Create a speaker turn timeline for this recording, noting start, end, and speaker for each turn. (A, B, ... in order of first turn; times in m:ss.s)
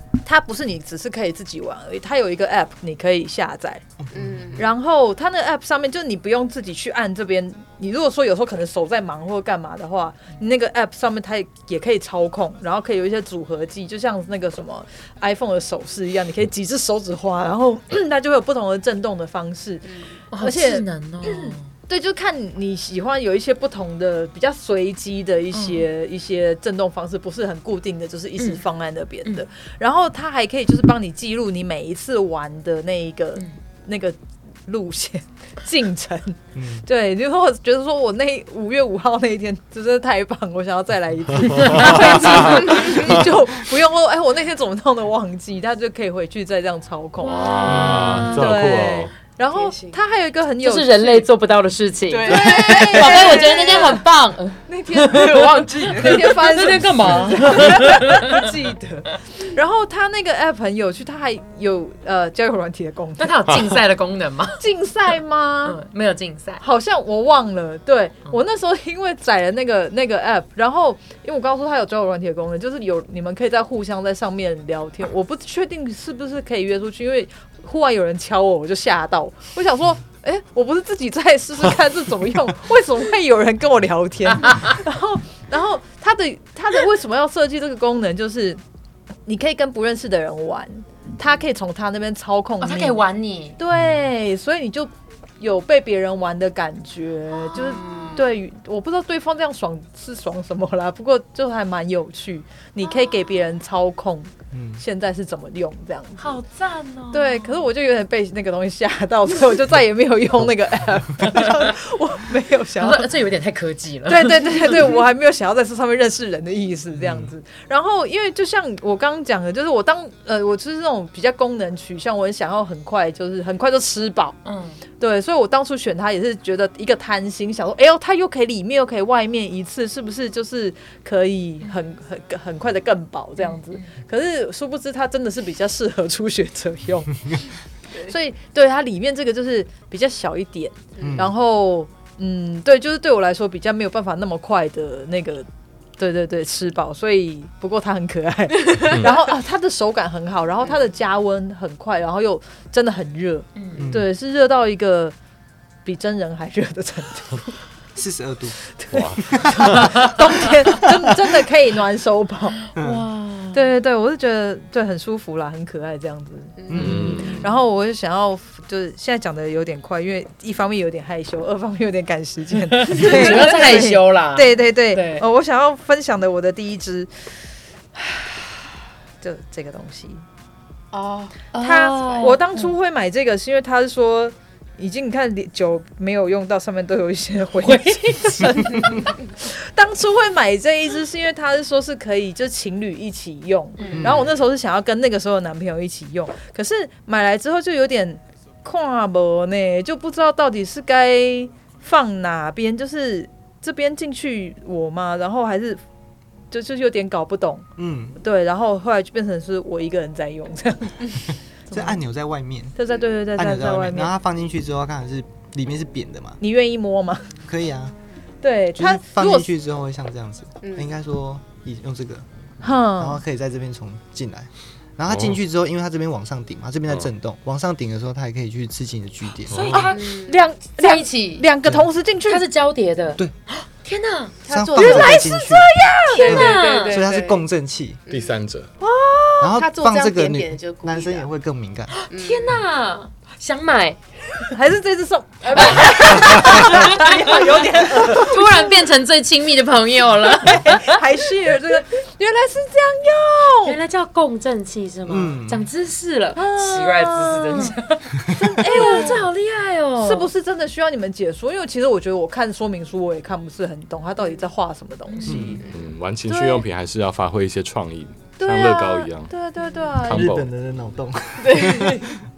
0:00.2-0:03.8 A
0:04.0-0:04.6 B
0:04.2-0:04.6 C
0:04.6-0:51.3 A
0:20.3-0:21.7 D
0:25.5-0:25.8 D
0:36.5-0:36.8 B
0:41.5-0:43.3 E
0:41.7-0:42.0 D
0:47.2-0:48.3 D
0:47.2-0:49.1 E
0:49.5-0:50.0 C
0:50.6-0:58.5 D
0:52.1-0:54.0 C
0:52.2-0:54.0 A
0:54.7-1:03.5 A
0:55.1-0:57.3 C
1:03.2-1:04.7 D
1:04.6-1:05.8 A
1:05.6-1:06.6 D
1:06.6-1:28.6 A
1:29.2-1:33.0 A
1:32.6-1:33.6 D
1:33.6-1:46.4 A
1:37.5-1:38.2 D
1:42.8-1:43.1 D
1:44.5-1:44.8 B
1:46.2-1:47.6 D
1:47.1-1:53.1 A
1:52.8-1:54.9 D
1:54.0-2:04.4 A
1:57.0-1:57.3 B
2:04.4-2:04.8 D
2:05.0-2:17.3 A
2:13.4-2:13.9 D
2:18.0-2:35.1 A
2:21.0-2:21.3 B
2:33.6-2:33.9 D
2:33.8-2:34.1 B
2:35.8-2:37.6 A
2:37.9-2:38.6 B
2:38.7-2:42.6 A
2:38.9-2:39.2 E
2:39.2-2:39.8 B
2:39.7-2:40.0 E
2:40.8-2:41.1 B
2:42.7-2:43.7 D
2:42.8-2:43.0 B
2:43.5-2:57.1 A
2:46.6-2:47.2 C
2:46.7-2:47.2 B
2:46.7-2:47.5 E
2:52.6-2:55.2 D
2:53.1-2:53.5 C
2:57.9-2:58.6 A
2:59.2-3:00.2 A
3:00.9-3:01.4 C
3:01.5-3:02.7 D
3:01.6-3:25.8 A
3:07.6-3:09.0 D
3:13.8-3:14.1 D
3:13.9-3:14.3 B
3:26.5-3:27.7 A
3:27.8-3:28.2 B
3:28.2-3:32.0 A
3:31.7-3:32.8 B
3:32.8-3:34.1 A
3:33.4-3:36.4 B
3:36.4-3:37.4 A
3:37.4-3:38.0 B
3:38.4-3:39.5 A
3:38.8-3:42.3 B
3:40.6-3:40.9 C
3:42.6-3:43.2 A
3:42.8-3:49.8 B
3:45.1-3:45.4 E
3:49.5-3:49.8 E
3:49.5-3:52.4 A
3:49.5-3:51.5 D
3:50.0-3:50.3 C
3:52.2-3:54.4 D
3:54.4-3:57.4 C
3:54.5-3:58.0 B
3:54.8-3:56.2 A
3:56.1-3:57.1 D
3:58.1-3:58.7 E
3:58.1-4:01.3 C
3:59.4-4:01.9 B
4:02.0-4:04.5 D
4:02.1-4:02.5 C
4:04.5-4:08.8 A
4:05.5-4:11.0 D
4:10.4-4:13.8 A
4:13.6-4:20.3 D
4:15.1-4:15.6 B
4:16.4-4:17.8 A
4:18.3-4:19.2 A
4:20.0-4:25.6 A
4:25.2-4:25.6 B
4:25.6-4:29.3 E
4:26.3-4:26.6 A
4:28.4-4:30.4 A
4:30.0-4:30.5 E
4:30.1-4:32.2 B
4:31.4-4:32.2 C